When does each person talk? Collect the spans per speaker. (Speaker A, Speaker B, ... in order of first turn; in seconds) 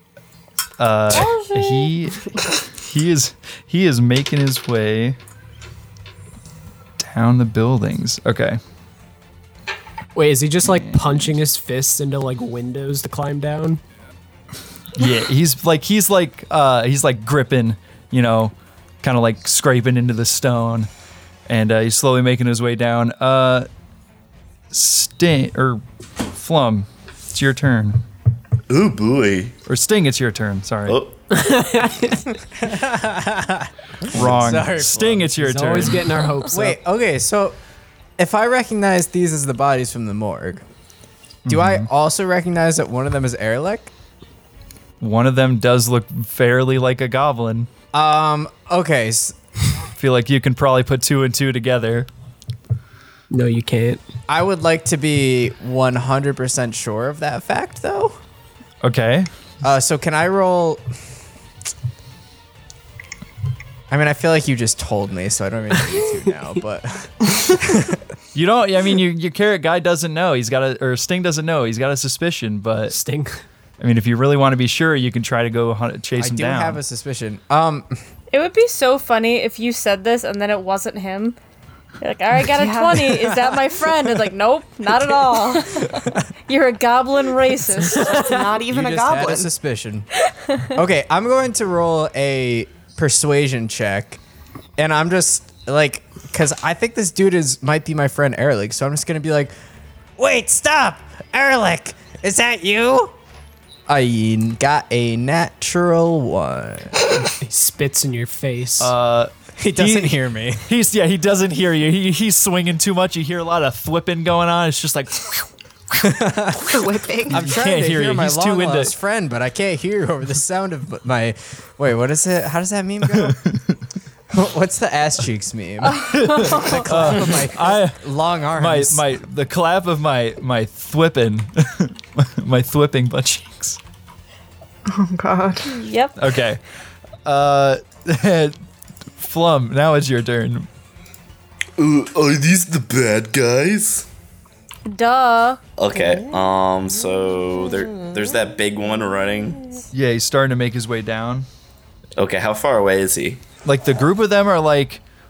Speaker A: 0.8-5.2, 7.0-8.6, 10.6-11.3, 14.9-20.9, 21.5-23.7, 24.7-25.8, 26.3-28.0, 29.7-31.0, 34.1-36.2, 41.5-41.9, 45.0-47.7, 50.0-52.1, 58.8-59.3, 68.3-73.0, 73.8-76.8, 108.8-115.5, 117.3-118.9, 123.2-123.5, 126.1-128.0, 128.6-133.8, 136.2-136.6, 137.2-138.6, 139.2-140.7, 149.9-151.4, 153.6-155.0
Speaker B: 1.1-1.9, 78.3-81.4, 82.0-88.3, 90.5-90.7, 126.3-126.6, 135.7-136.2, 144.9-145.6
Speaker C: 10.2-13.8, 31.3-32.3, 35.4-36.8, 53.3-54.0, 72.9-73.4, 107.4-108.9
Speaker D: 28.7-29.5, 30.9-31.1, 145.8-149.6, 152.2-153.4
Speaker E: 32.6-35.3, 36.5-37.5, 38.2-40.6, 41.5-43.9, 47.9-49.4, 54.3-58.2, 59.6-60.8, 63.9-68.0, 76.2-78.0, 85.8-86.2, 88.5-90.1, 90.7-94.2, 94.8-99.5, 100.2-103.1, 103.9-106.9, 109.6-110.6, 116.0-116.7, 117.3-123.4, 124.3-129.0
Speaker F: 82.5-83.3, 87.9-89.5, 116.6-117.5, 134.9-135.7
Speaker G: 141.8-144.1